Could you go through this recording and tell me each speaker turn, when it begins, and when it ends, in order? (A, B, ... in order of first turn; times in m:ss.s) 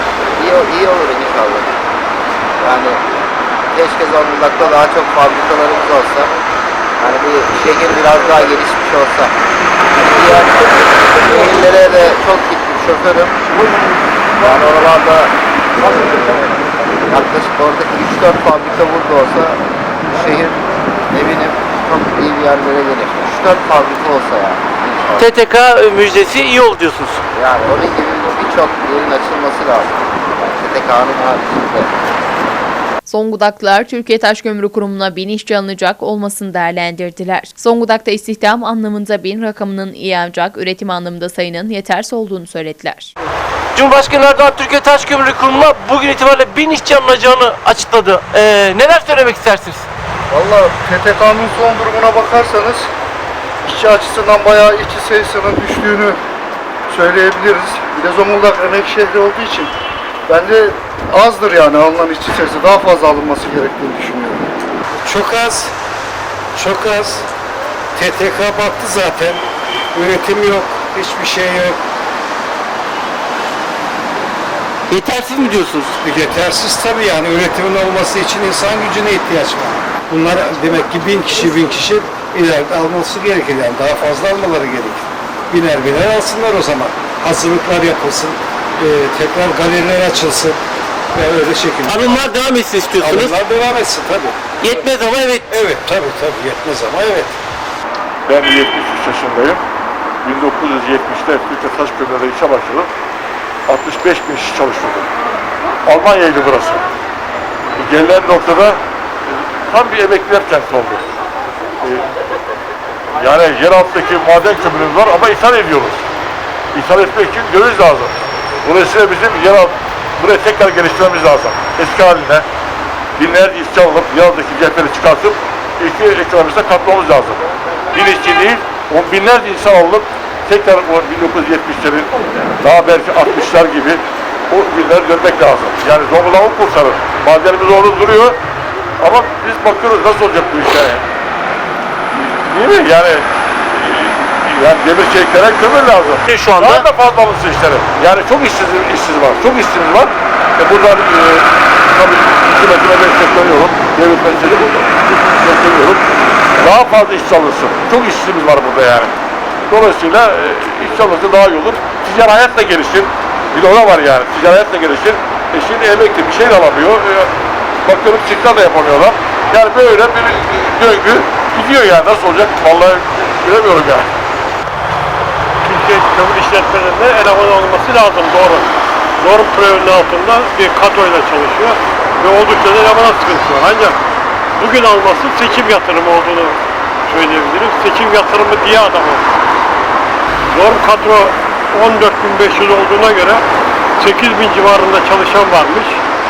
0:00.4-0:01.7 A
0:02.6-0:03.0 A
0:03.7-0:06.3 A
0:07.0-0:09.3 A
0:09.9-0:13.6 A
0:14.4-0:25.3 A
0:25.2-0:27.2 B
0:27.3-0:31.9 A
0:33.0-0:43.1 C
0:43.7-0:49.9 B
0:50.3-0:52.8 D
0:53.7-0:56.2 D
0:56.9-0:59.7 D
1:00.3-1:04.4 D
1:05.0-1:05.7 E
1:06.5-1:07.3 E
1:07.9-1:09.4 E
1:09.9-1:11.8 E
1:14.9-1:15.9 B
1:16.0-1:30.6 E
1:31.1-1:32.3 E
1:31.8-1:33.4 B
1:33.0-1:37.4 E
1:34.6-1:35.5 B
1:38.3-1:39.6 F
1:40.2-1:42.9 F
1:43.7-1:45.1 F
1:45.8-1:46.8 F
1:47.8-1:48.8 F
1:49.7-1:51.0 F
1:51.8-1:52.1 F
1:53.2-1:56.0 F
1:56.7-1:58.1 F
1:58.6-2:02.4 F
2:03.2-2:07.4 F
2:07.9-2:18.4 F
2:19.0-2:21.0 F
2:22.1-2:39.1 F
2:26.2-2:26.8 B
2:39.7-2:47.3 F
2:47.8-2:54.1 F
2:55.6-2:58.7 G
2:59.2-3:04.0 G
3:04.6-3:06.6 G
3:07.1-3:09.2 G
3:10.5-3:13.4 G
3:14.0-3:16.0 G